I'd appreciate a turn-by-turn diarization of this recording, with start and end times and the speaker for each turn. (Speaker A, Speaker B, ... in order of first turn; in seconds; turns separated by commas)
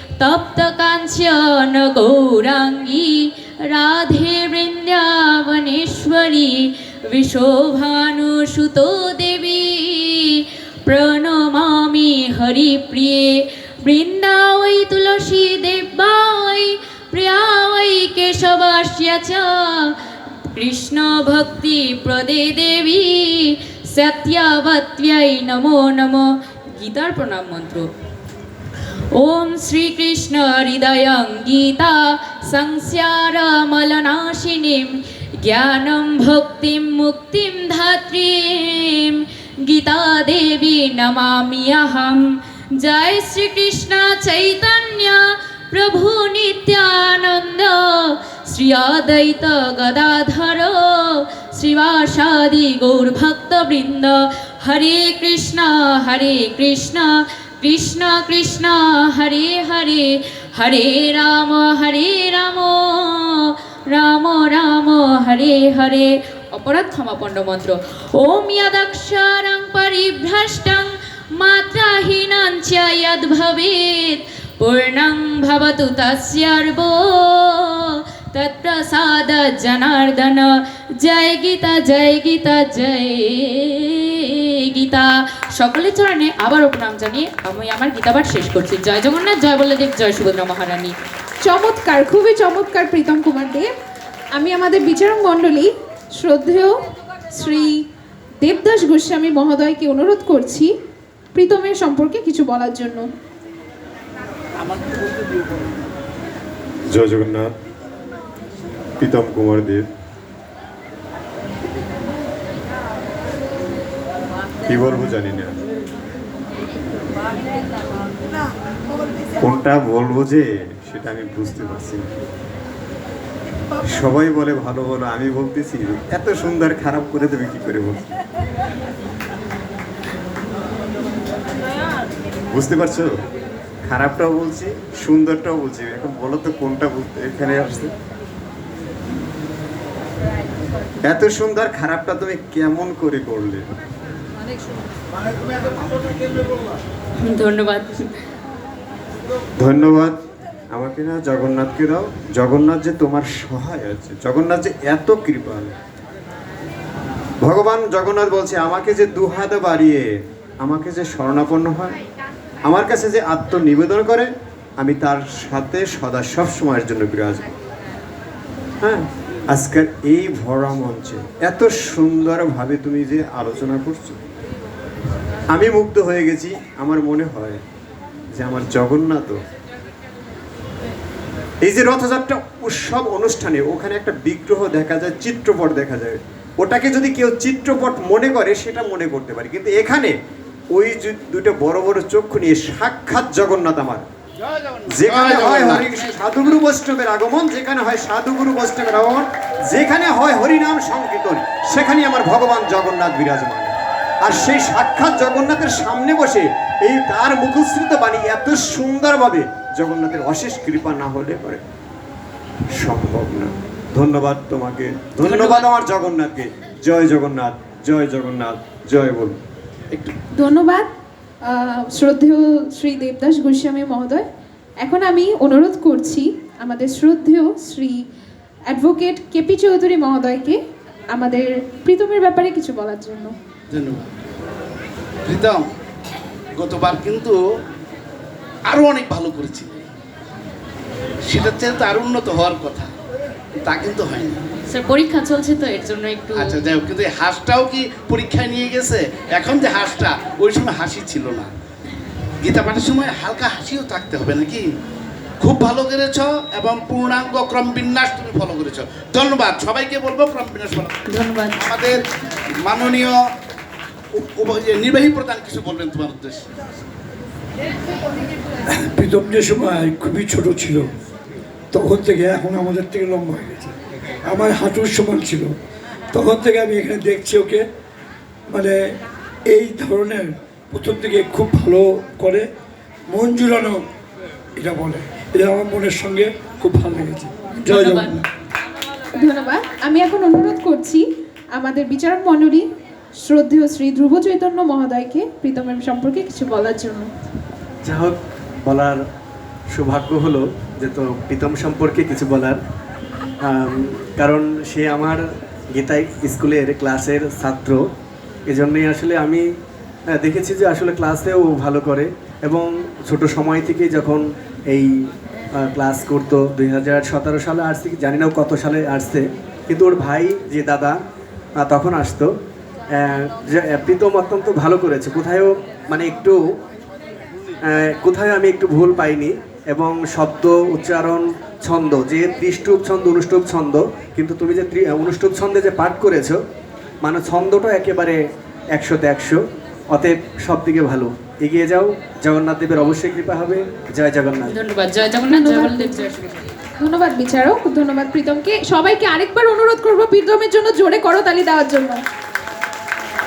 Speaker A: 0.2-19.9, Speaker A: 20.5-27.9, Speaker A: 29.1-90.9, Speaker B: 91.4-93.7, Speaker B: 94.3-96.8, Speaker B: 97.3-97.8, Speaker B: 98.4-100.7, Speaker B: 101.3-103.1, Speaker C: 106.9-107.5, Speaker C: 109.0-109.9, Speaker C: 114.7-115.6, Speaker C: 119.4-122.1, Speaker C: 123.9-128.0, Speaker C: 132.5-133.1, Speaker C: 133.8-137.9, Speaker C: 141.0-143.7, Speaker A: 147.2-148.1, Speaker C: 149.6-150.2, Speaker C: 150.7-155.7, Speaker C: 157.4-160.1, Speaker C: 160.6-162.0, Speaker C: 162.6-167.5, Speaker C: 168.8-174.2, Speaker C: 175.5-177.6, Speaker C: 178.3-179.4, Speaker C: 181.6-190.1, Speaker C: 190.7-194.1, Speaker C: 194.9-211.6, Speaker D: 195.1-195.8, Speaker C: 212.7-219.4, Speaker A: 215.2-215.7, Speaker B: 220.3-220.9, Speaker B: 221.4-224.2, Speaker B: 224.8-228.0, Speaker B: 228.7-230.6, Speaker B: 231.1-233.3, Speaker D: 233.7-234.1, Speaker D: 235.2-235.7, Speaker D: 236.6-237.4, Speaker D: 238.7-239.8, Speaker D: 241.2-242.9, Speaker D: 243.6-244.4, Speaker A: 244.7-246.6, Speaker D: 246.4-251.5, Speaker D: 252.4-254.7, Speaker D: 255.4-262.0, Speaker A: 261.1-261.6, Speaker D: 262.6-263.2, Speaker D: 264.1-266.4, Speaker E: 268.7-270.9, Speaker E: 271.7-275.6, Speaker E: 276.1-277.6, Speaker E: 278.5-278.9, Speaker E: 279.5-282.5, Speaker E: 283.1-283.8, Speaker E: 284.6-288.2, Speaker A: 287.6-288.2, Speaker B: 289.1-291.0, Speaker B: 291.5-292.6, Speaker B: 293.2-297.1, Speaker F: 297.8-299.0, Speaker F: 299.7-302.6, Speaker F: 303.4-305.2, Speaker F: 305.7-307.8, Speaker F: 308.5-309.4, Speaker F: 310.1-314.9, Speaker F: 315.6-321.0, Speaker F: 321.6-322.3, Speaker F: 322.9-326.4, Speaker F: 327.7-336.4, Speaker F: 337.0-338.2, Speaker F: 338.7-339.4, Speaker F: 339.9-344.5, Speaker A: 344.4-346.3, Speaker B: 345.3-346.0, Speaker B: 346.8-352.0